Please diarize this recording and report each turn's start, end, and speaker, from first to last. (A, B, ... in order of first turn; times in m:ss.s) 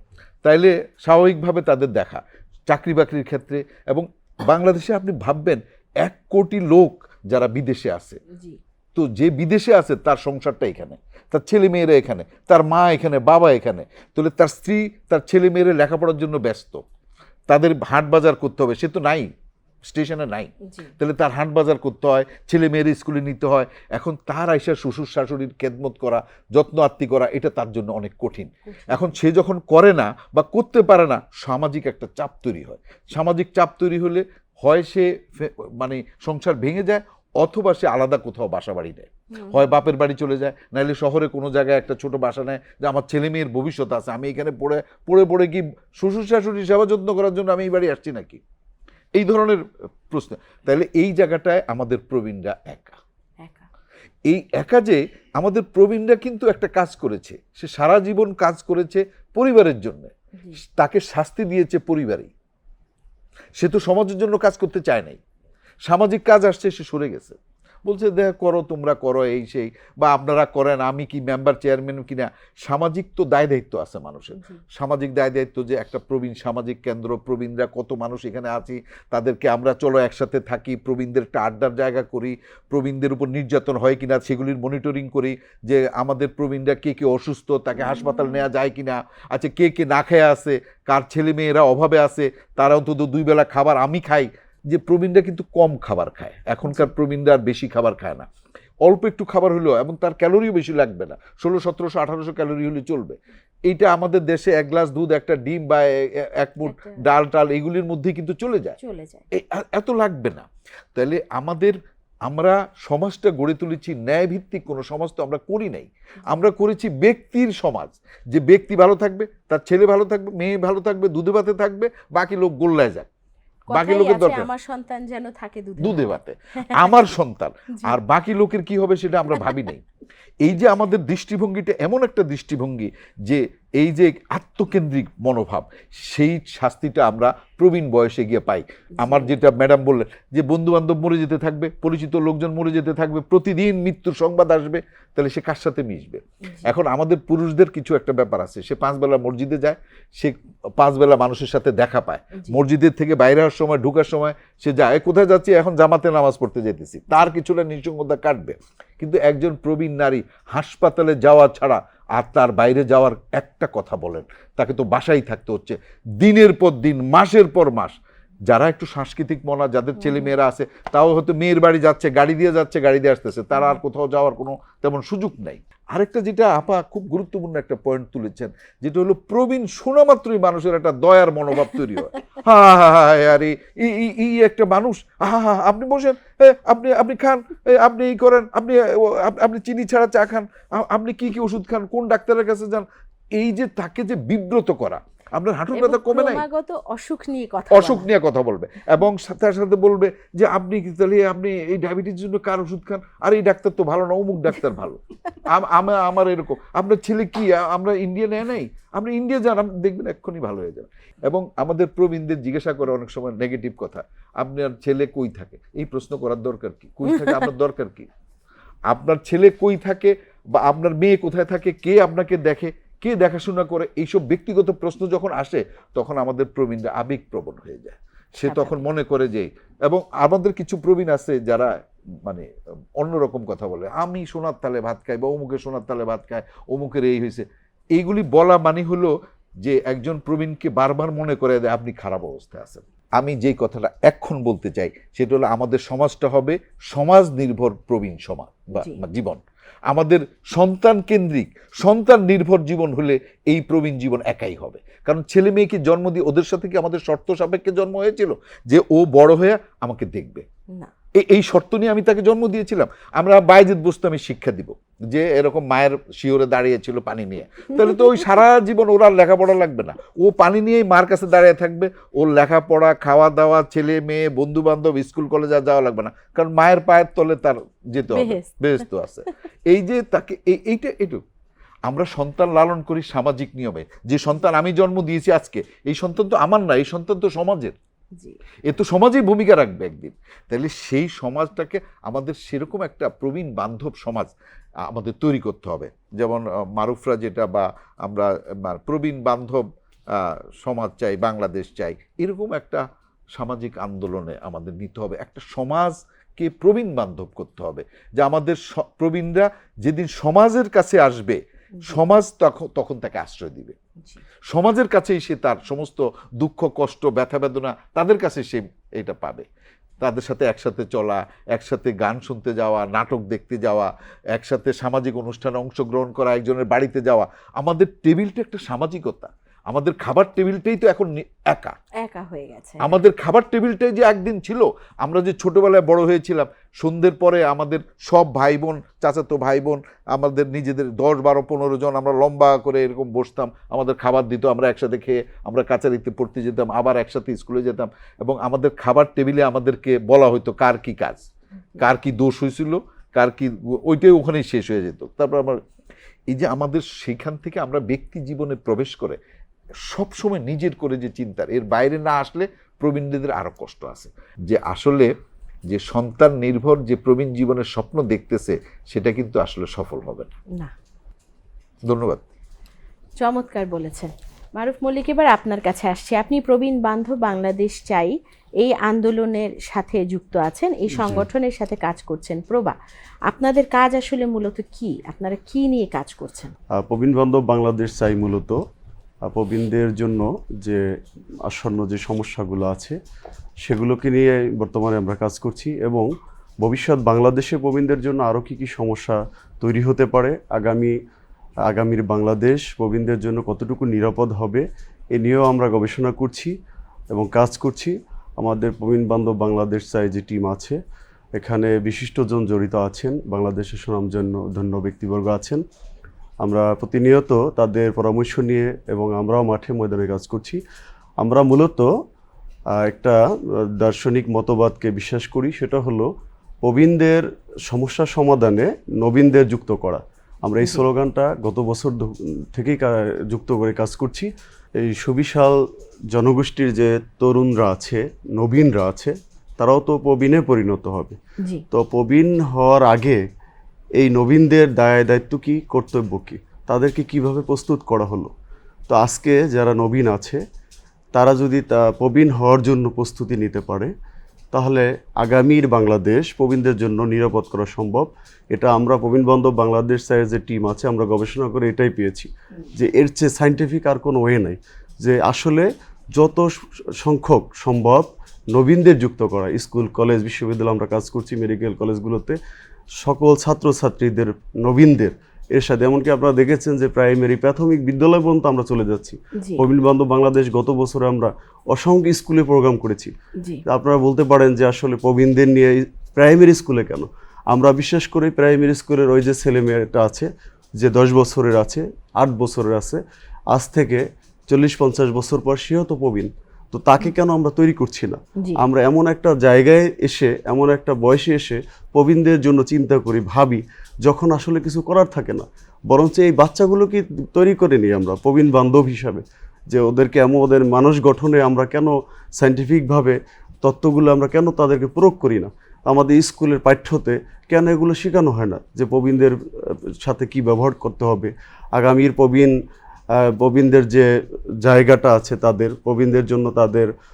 0:00.4-0:08.2 A
0:08.3-0:08.6 B
0:08.9-0:16.8 A
0:17.5-0:19.3 A
0:19.8-0:48.4 A
0:28.7-0:29.0 B
0:39.4-0:39.7 B
0:49.1-0:53.0 A
0:53.4-0:53.7 B
0:54.2-1:02.3 A
1:03.6-1:05.2 A
1:05.8-1:38.3 A
1:36.6-1:36.9 B
1:38.8-1:48.8 A
1:46.6-1:47.0 B
1:48.8-1:49.2 B
1:49.3-2:03.1 A
2:03.7-2:07.1 B
2:03.7-2:04.5 A
2:05.8-2:09.8 A
2:10.4-3:16.4 A
2:19.0-2:19.3 B
2:50.0-2:50.3 B
3:15.7-3:18.1 B
3:17.7-3:38.1 A
3:37.1-3:37.5 B
3:38.9-3:52.4 A
3:48.4-3:48.8 B
3:53.0-4:20.4 A
4:21.1-4:41.2 A
4:38.1-4:38.8 B
4:41.8-4:47.7 A
4:48.6-4:54.3 A
4:54.8-5:13.7 A
5:14.5-5:19.4 A
5:20.0-5:31.8 A
5:32.0-5:32.9 B
5:32.8-5:51.3 A
5:51.8-5:55.6 A
5:56.3-5:59.2 A
5:59.9-6:05.1 A
6:05.7-6:10.3 A
6:11.8-6:12.2 A
6:13.2-6:22.8 B
6:20.9-6:21.2 C
6:23.3-6:26.5 B
6:26.7-6:28.6 C
6:29.2-6:30.8 C
6:31.4-6:33.0 C
6:33.6-6:36.1 C
6:36.6-6:41.0 C
6:41.7-6:46.5 C
6:47.1-6:50.8 C
6:51.4-6:55.6 C
6:56.4-7:00.6 C
7:01.2-7:01.9 C
7:02.8-7:03.2 C
7:03.8-7:06.1 C
7:06.6-7:21.2 C
7:21.7-7:23.2 C
7:24.0-7:28.3 C
7:28.9-7:30.4 C
7:31.1-7:33.9 C
7:34.5-7:52.4 C
7:53.0-8:03.1 C
7:59.4-7:59.6 B
8:03.6-8:42.6 C
8:43.1-8:44.1 C
8:44.6-8:46.9 C